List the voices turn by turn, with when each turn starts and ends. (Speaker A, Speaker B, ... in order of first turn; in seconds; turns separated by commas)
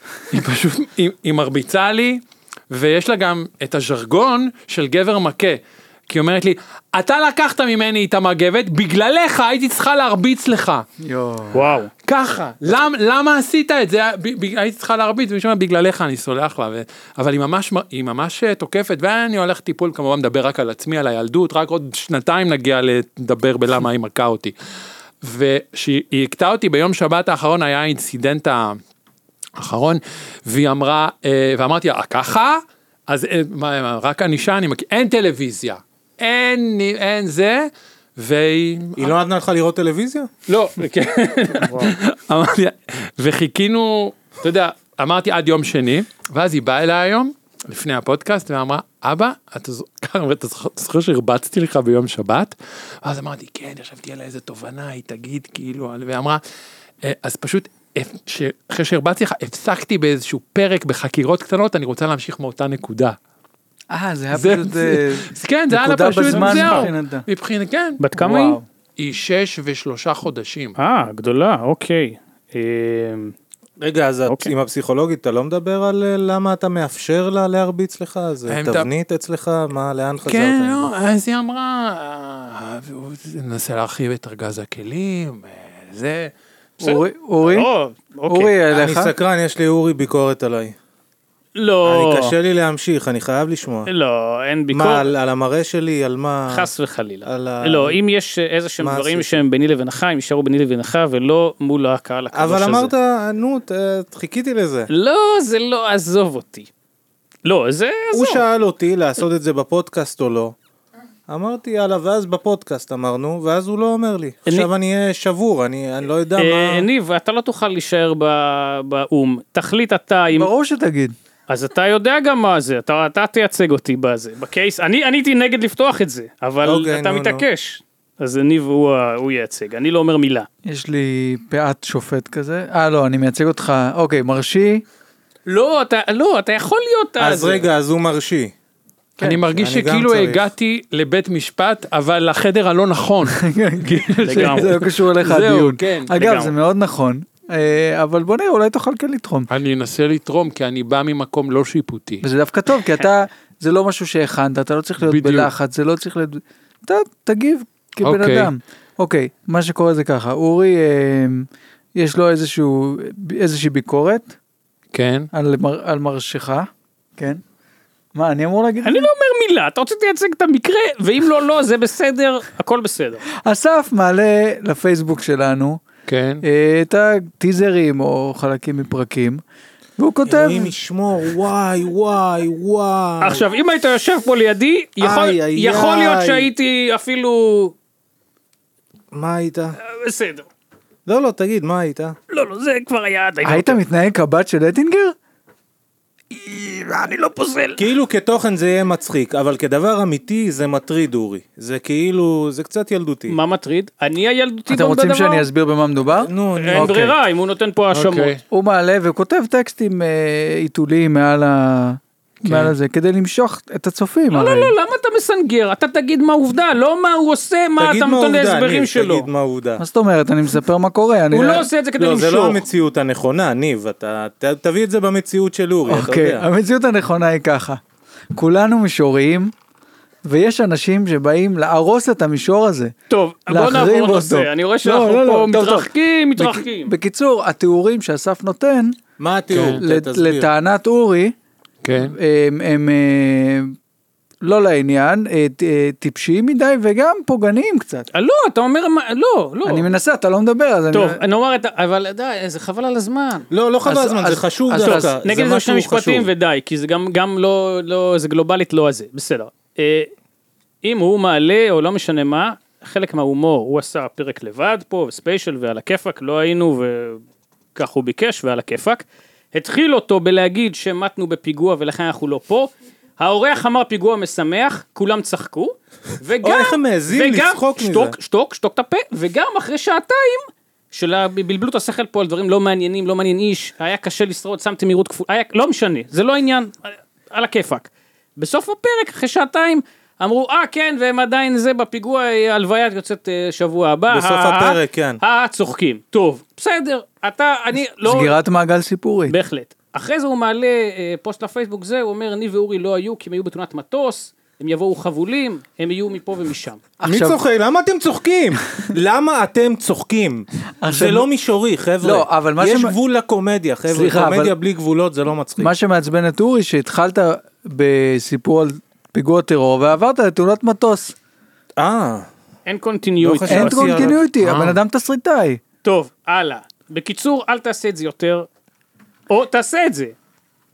Speaker A: 0.3-10.8, Speaker B: 11.0-11.7, Speaker C: 11.5-11.9, Speaker A: 12.0-24.5, Speaker A: 25.2-28.8, Speaker A: 29.6-39.2, Speaker D: 39.0-40.3, Speaker A: 40.5-56.4, Speaker C: 41.6-41.9, Speaker A: 57.0-63.2, Speaker B: 63.9-67.2, Speaker A: 64.3-68.0, Speaker C: 66.3-66.9, Speaker C: 68.0-68.6, Speaker B: 68.2-68.6, Speaker A: 69.0-70.8, Speaker C: 70.8-73.3, Speaker D: 73.8-80.9, Speaker A: 78.5-78.9, Speaker A: 80.2-86.3, Speaker B: 86.8-87.7, Speaker C: 86.8-88.5, Speaker B: 88.3-89.1, Speaker D: 88.7-90.7, Speaker C: 91.5-92.3, Speaker D: 91.9-93.9, Speaker C: 93.8-95.1, Speaker D: 94.7-96.7, Speaker C: 96.5-102.9, Speaker D: 97.2-98.0, Speaker D: 98.8-99.4, Speaker D: 102.3-104.9, Speaker C: 104.9-106.7, Speaker C: 107.4-108.4, Speaker D: 108.1-110.5, Speaker D: 111.3-116.8, Speaker C: 116.4-120.5, Speaker B: 120.3-121.1, Speaker C: 121.5-130.5, Speaker D: 126.6-127.4, Speaker B: 130.6-134.8, Speaker C: 135.5-137.7, Speaker D: 137.2-138.5, Speaker B: 139.2-139.4, Speaker A: 139.2-146.2, Speaker D: 139.5-140.4, Speaker B: 143.3-149.5, Speaker C: 144.2-144.7, Speaker C: 146.1-146.5, Speaker A: 149.5-152.2, Speaker B: 152.2-164.3, Speaker A: 155.0-155.5, Speaker A: 158.0-158.5, Speaker A: 164.9-165.3, Speaker B: 165.3-167.4, Speaker B: 168.1-169.1, Speaker C: 168.8-173.2, Speaker B: 173.4-175.8, Speaker A: 176.1-176.4, Speaker B: 176.4-179.4, Speaker B: 180.0-180.7, Speaker D: 180.3-183.4, Speaker C: 183.2-187.7, Speaker D: 185.0-186.5, Speaker D: 189.1-189.8, Speaker C: 189.8-190.4, Speaker D: 191.1-192.2, Speaker C: 192.3-193.8, Speaker B: 193.4-195.1, Speaker C: 196.3-197.8, Speaker D: 197.8-203.4, Speaker C: 203.3-205.4, Speaker B: 204.7-207.1, Speaker D: 206.2-207.1, Speaker C: 206.5-208.3, Speaker A: 207.9-208.4, Speaker B: 208.5-214.7, Speaker A: 212.4-212.7, Speaker C: 214.3-219.3, Speaker D: 217.8-219.8, Speaker B: 219.8-221.7, Speaker C: 221.3-222.6, Speaker D: 222.0-226.4, Speaker B: 225.9-227.8, Speaker B: 228.3-229.5, Speaker B: 230.2-232.9, Speaker C: 233.1-236.9, Speaker B: 233.5-239.0, Speaker D: 234.8-235.6, Speaker D: 239.2-240.5, Speaker A: 239.5-239.8, Speaker B: 239.6-241.3, Speaker A: 241.8-242.1, Speaker B: 241.9-243.7, Speaker B: 244.4-248.1, Speaker C: 248.1-249.9, Speaker B: 249.6-251.2, Speaker C: 250.9-253.5, Speaker D: 253.5-256.3, Speaker B: 253.8-255.1, Speaker C: 254.8-260.1, Speaker C: 260.8-267.2, Speaker C: 267.7-298.3, Speaker D: 276.4-278.1, Speaker D: 294.1-295.2, Speaker B: 298.0-299.3, Speaker C: 299.3-306.8, Speaker B: 307.0-307.4, Speaker D: 307.0-315.7, Speaker B: 310.8-311.3, Speaker B: 312.0-312.9, Speaker B: 313.9-314.6, Speaker B: 315.6-321.1, Speaker D: 321.8-322.3, Speaker C: 322.6-324.2, Speaker D: 323.2-324.2, Speaker B: 323.5-325.6, Speaker A: 324.4-324.8, Speaker C: 325.8-328.5, Speaker C: 329.3-330.1